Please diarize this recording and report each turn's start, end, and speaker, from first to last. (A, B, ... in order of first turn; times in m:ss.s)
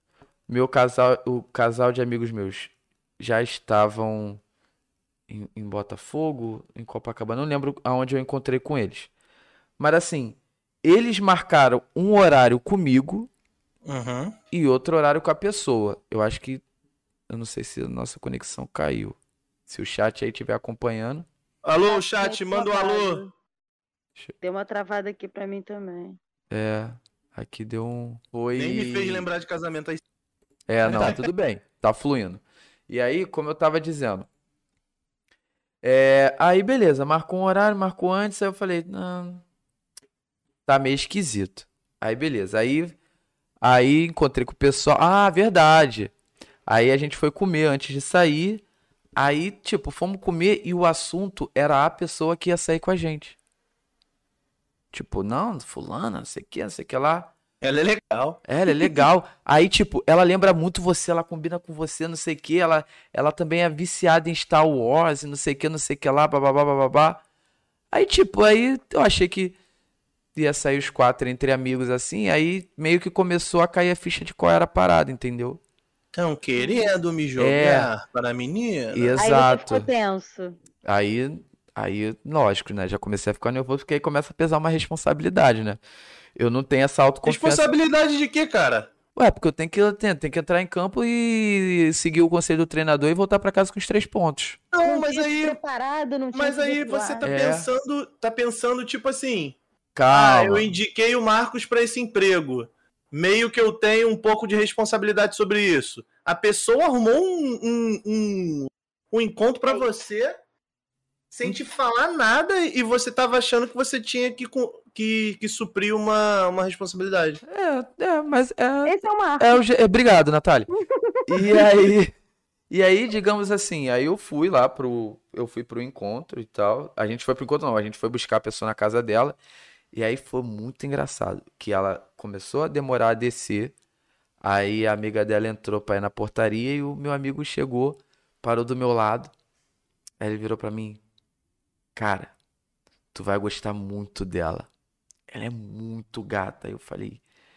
0:00.5-0:04.4 A
0:05.3-0:09.1 A
0:09.8-0:13.3 A
0:13.8-0:14.3 B
0:14.5-0:16.6 A
0:17.3-0:21.3 A
0:21.6-0:23.2 B
0:21.8-0:23.3 C
0:24.4-0:26.2 C
0:26.5-0:29.3 A
0:28.6-0:30.0 B
0:30.7-0:34.3 A
0:30.8-0:31.3 B
0:35.8-0:39.4 A
0:40.6-0:43.0 A
0:43.6-0:46.1 A
0:46.7-0:48.6 A
0:49.2-0:53.4 A
0:54.9-0:57.3 A
0:57.6-0:58.4 B
0:58.5-1:07.2 A
1:07.9-1:09.6 A
1:10.3-1:15.6 A
1:16.1-1:19.2 B
1:16.6-1:16.9 C
1:17.4-1:17.9 A
1:18.9-1:19.9 A
1:19.2-1:20.6 C
1:20.8-1:25.8 A
1:26.4-1:27.7 A
1:27.2-1:28.9 B
1:29.1-1:34.6 A
1:34.7-1:35.6 B
1:34.8-1:37.2 C
1:36.3-1:39.6 B
1:37.2-1:37.7 A
1:40.0-1:40.7 A
1:40.1-1:50.4 B
1:51.3-1:57.4 B
1:57.4-2:00.7 A
1:58.8-1:59.6 C
2:00.7-2:01.6 C
2:01.3-2:02.1 A
2:02.7-2:09.4 A
2:09.9-2:13.7 A
2:14.4-2:19.3 A
2:20.2-2:21.0 A
2:22.0-2:22.3 A
2:23.1-2:24.7 A
2:25.3-2:27.2 A